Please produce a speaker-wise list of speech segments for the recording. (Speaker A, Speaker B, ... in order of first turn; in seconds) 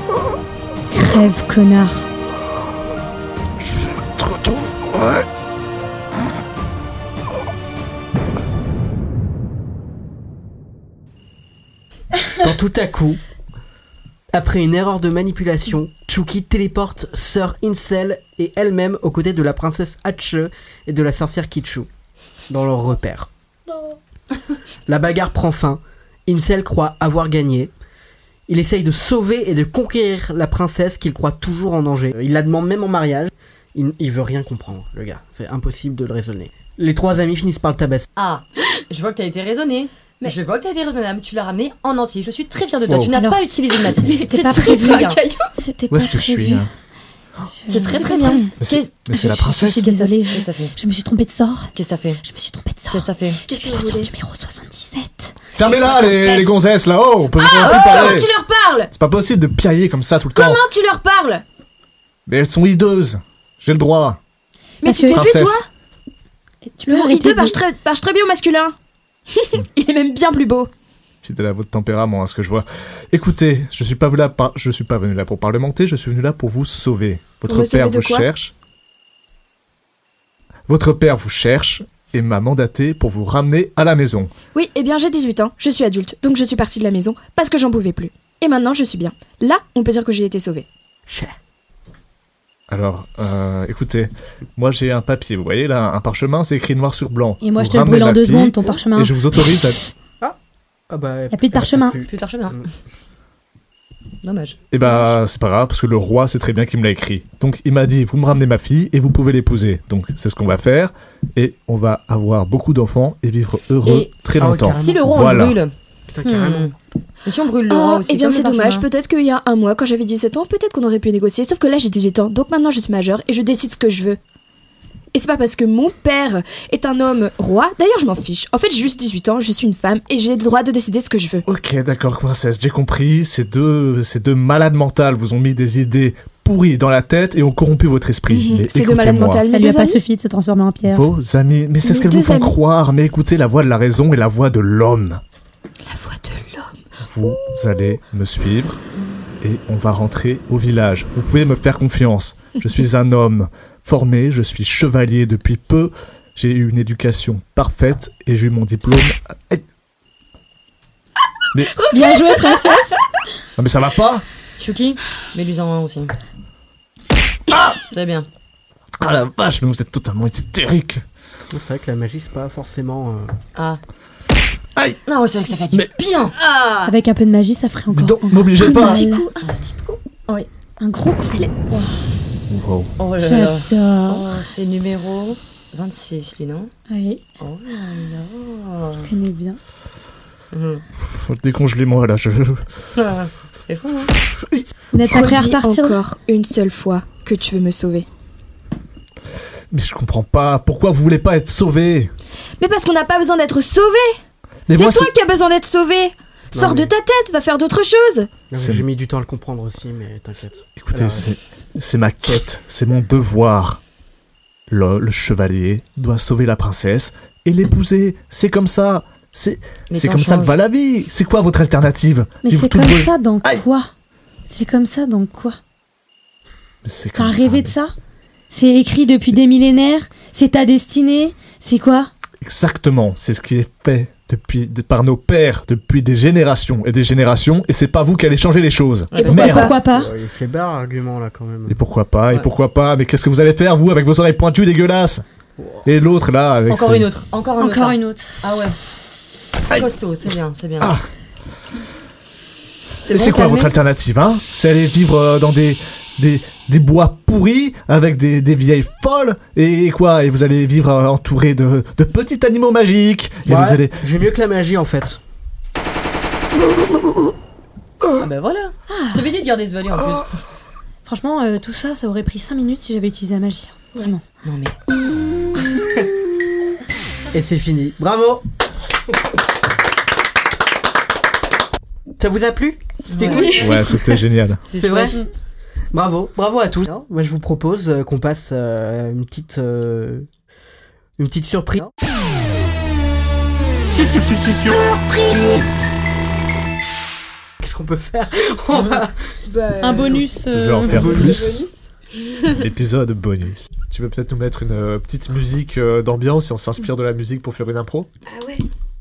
Speaker A: 0.9-2.1, 43.1-46.7, 47.5-48.5, 49.1-56.4, 64.8-65.3, 66.7-67.6, 97.4-99.1, 101.3-102.0, 139.4-141.1, 161.9-162.9, 176.8-179.3, 180.8-181.9, 183.2-184.4, 186.9-187.2, 189.0-189.6, 194.9-196.0, 222.4-223.9, 224.5-225.6, 227.2-227.9, 228.5-232.1, 239.2-240.1, 247.6-248.4, 268.9-269.3, 271.0-274.2, 299.8-301.5
Speaker B: 3.6-5.2, 42.9-43.1, 45.9-46.7, 48.6-49.9, 55.5-58.3, 58.9-60.6, 62.3-64.2, 65.1-65.6, 71.2-78.5, 80.7-84.3, 92.7-99.8, 104.7-115.6, 131.4-139.4, 140.8-145.2, 147.0-148.8, 149.4-159.6, 163.6-164.2, 167.5-167.7, 169.0-171.0, 174.8-175.0, 177.9-179.0, 182.5-182.9, 191.1-192.6, 199.7-202.1, 204.7-205.0, 208.6-208.8, 210.8-213.8, 214.7-223.6, 226.8-227.8, 232.4-239.7, 241.7-245.2, 245.8-247.1, 253.1-264.0, 283.6-284.6, 300.5-301.6, 302.5-308.1
Speaker C: 12.3-13.2, 14.3-21.9, 22.5-23.3, 24.9-27.7, 28.5-38.1, 91.1-91.3, 100.9-102.7, 114.3-115.0, 116.1-116.7, 171.5-173.3, 206.5-206.9, 208.5-211.3, 239.8-241.8, 245.6-245.8, 263.4-265.2, 277.3-278.4, 282.2-284.2, 284.7-285.2, 285.9-290.3, 291.2-291.9, 293.9-296.0, 297.6-299.1
Speaker D: 38.1-45.2, 47.7-49.1, 49.7-50.8, 51.7-52.2, 52.9-53.4, 55.6-56.0, 102.1-102.6, 104.2-105.1, 113.8-114.1, 114.7-116.7, 117.2-118.9, 164.6-166.1, 167.7-168.3, 173.5-173.8, 175.1-176.5, 183.0-186.7, 187.4-189.1, 190.5-190.8, 192.9-194.1, 219.9-220.6, 239.1-239.7, 246.7-249.0, 249.7-251.0, 253.1-253.7, 268.2-270.3, 274.4-274.8, 283.1-283.8, 284.7-285.2
Speaker E: 44.1-45.5, 53.5-54.1, 57.3-58.9, 60.3-61.4, 64.8-65.6, 66.9-68.7, 69.3-70.7, 77.5-78.3, 84.5-90.7, 117.7-124.2, 125.1-131.4, 138.3-140.0, 141.8-142.5, 145.9-146.7, 161.8-162.6, 178.6-180.0, 195.0-198.1, 202.6-204.2, 204.7-208.3, 239.3-239.7, 299.5-301.9, 308.3-308.6